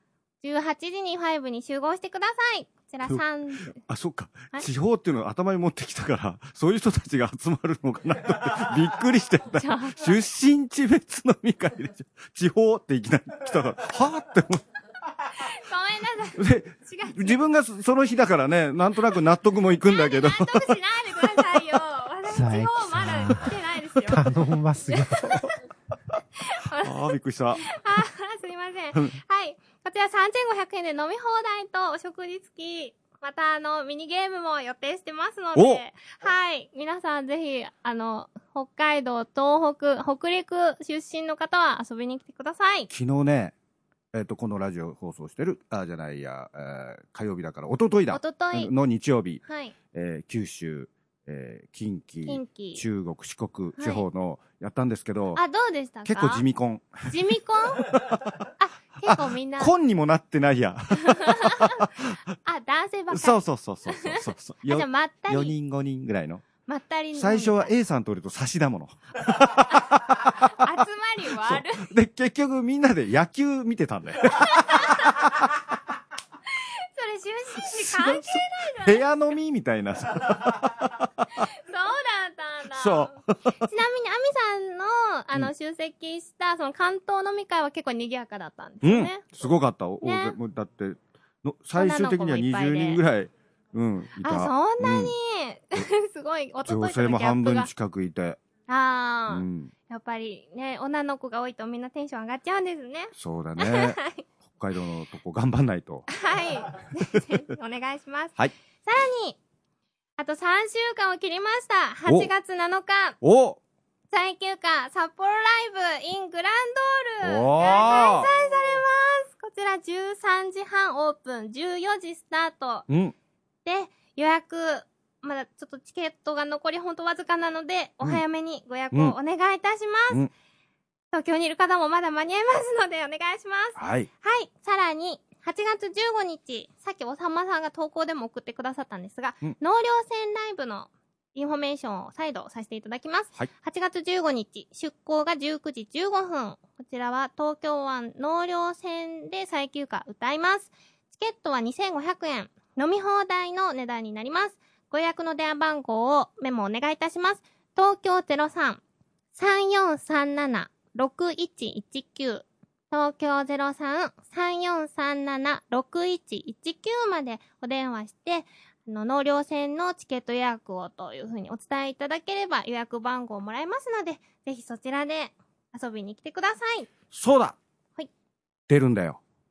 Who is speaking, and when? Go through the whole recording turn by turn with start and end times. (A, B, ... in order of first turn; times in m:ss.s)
0:00.4-0:03.8 A
0:03.0-0:14.6 B
0:09.6-0:10.0 A
0:15.4-0:17.4 A
0:16.4-0:20.7 B
0:19.9-0:24.3 A
0:22.3-0:23.5 C
0:24.1-0:25.4 C
0:24.9-0:25.5 A
0:26.5-0:26.9 A
0:26.8-0:27.6 B
0:27.6-0:42.9 A
0:35.5-0:35.8 B
0:42.9-0:43.5 B
0:44.1-0:49.4 B
0:48.1-0:48.7 A
0:49.4-0:49.7 A
0:49.9-0:55.4 B
0:52.2-0:52.8 A
0:53.8-0:54.0 A
0:55.3-0:56.4 A
0:56.0-0:57.1 B
0:57.1-0:57.8 A
0:57.9-0:58.3 B
0:58.6-0:59.7 A
0:59.1-1:02.1 B
1:01.4-1:01.6 A
1:02.4-1:05.5 A
1:03.1-1:06.4 B
1:06.7-1:07.7 A
1:07.1-1:10.5 B
1:10.5-1:11.9 A
1:11.3-1:15.5 B
1:14.7-1:15.0 A
1:17.0-1:19.0 A
1:17.6-1:21.4 B
1:21.6-1:29.2 A
1:22.7-1:23.2 B
1:28.8-1:35.1 B
1:30.0-1:30.4 A
1:31.7-1:33.0 A
1:34.2-1:37.7 A
1:36.6-1:38.4 B
1:38.7-1:44.2 A
1:39.3-1:39.7 B
1:43.1-1:46.1 B
1:46.1-1:49.4 A
1:50.2-1:53.2 A
1:52.0-1:52.3 B
1:53.2-1:53.6 B
1:54.1-2:02.8 A
1:57.2-1:58.3 B
2:02.9-2:03.1 B
2:03.6-2:10.2 A
2:11.1-2:38.8 A
2:13.8-2:14.1 B
2:39.4-2:56.9 A
2:57.1-2:57.6 B
2:58.7-2:59.2 B